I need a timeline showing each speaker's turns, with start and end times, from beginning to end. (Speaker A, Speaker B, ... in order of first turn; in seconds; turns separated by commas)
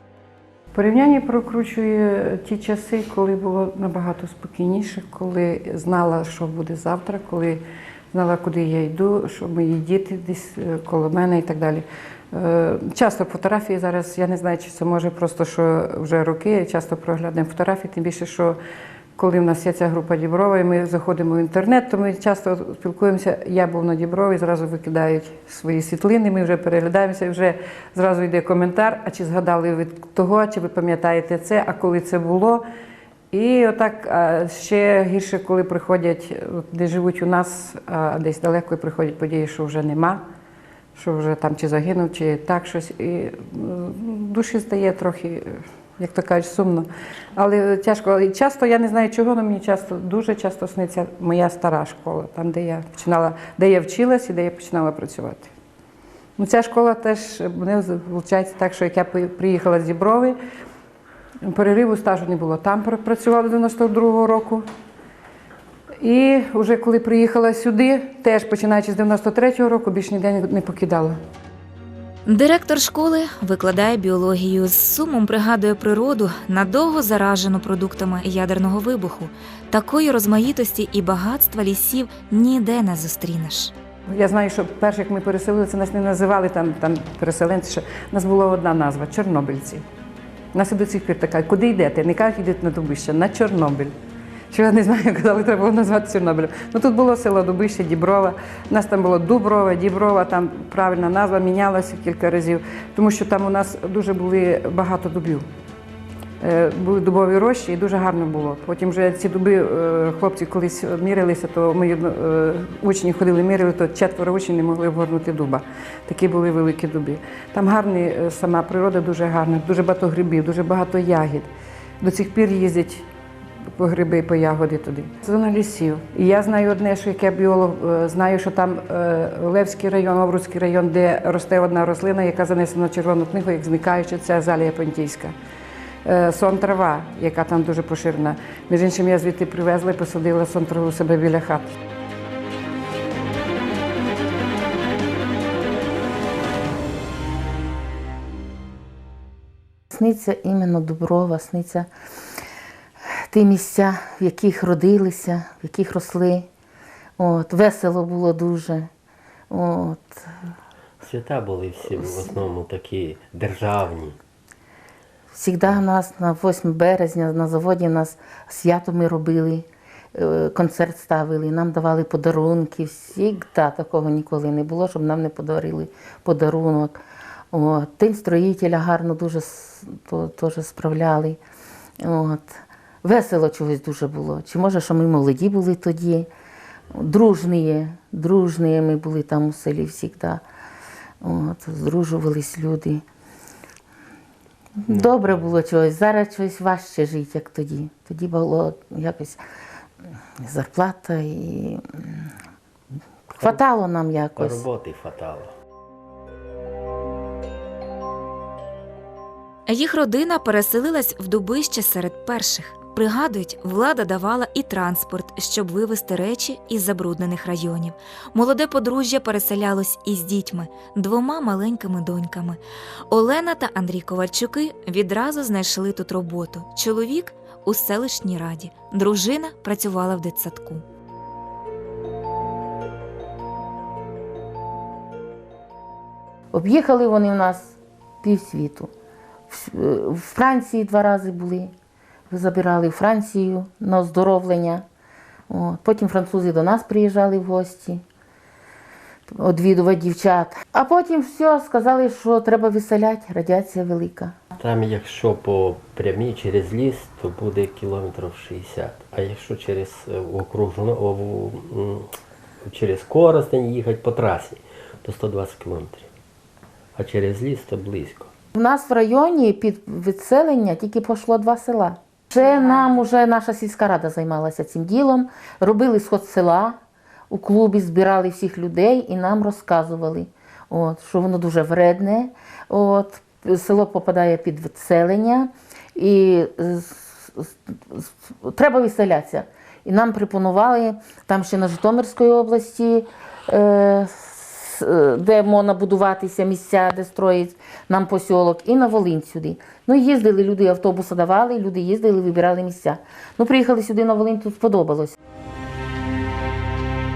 Speaker A: 0.7-18.6, Speaker A: 19.1-32.6, Speaker A: 33.3-40.2, Speaker A: 40.9-55.5, Speaker A: 56.4-60.4, Speaker A: 61.4-64.7, Speaker A: 66.0-71.2, Speaker B: 72.2-83.7, Speaker A: 84.1-89.8, Speaker A: 90.5-93.9, Speaker A: 94.5-105.5, Speaker A: 106.4-121.5, Speaker A: 122.0-123.1, Speaker A: 123.8-135.3, Speaker A: 136.0-141.7, Speaker C: 149.9-151.9, Speaker C: 153.3-156.5, Speaker C: 157.2-158.9, Speaker C: 159.5-160.3, Speaker D: 161.0-164.2, Speaker C: 165.3-177.0, Speaker C: 177.5-181.4, Speaker C: 182.0-186.3, Speaker C: 186.9-190.4, Speaker C: 191.2-193.0, Speaker C: 194.8-199.4, Speaker D: 194.9-195.4, Speaker C: 200.4-202.3, Speaker C: 203.3-204.6, Speaker D: 204.3-205.5, Speaker B: 209.7-230.8, Speaker C: 236.5-238.9, Speaker C: 239.5-241.7, Speaker C: 242.3-244.8, Speaker C: 245.5-248.0, Speaker C: 249.3-254.4, Speaker D: 254.5-262.1, Speaker D: 262.6-266.1, Speaker D: 266.9-268.3, Speaker C: 268.5-276.8, Speaker C: 277.3-305.1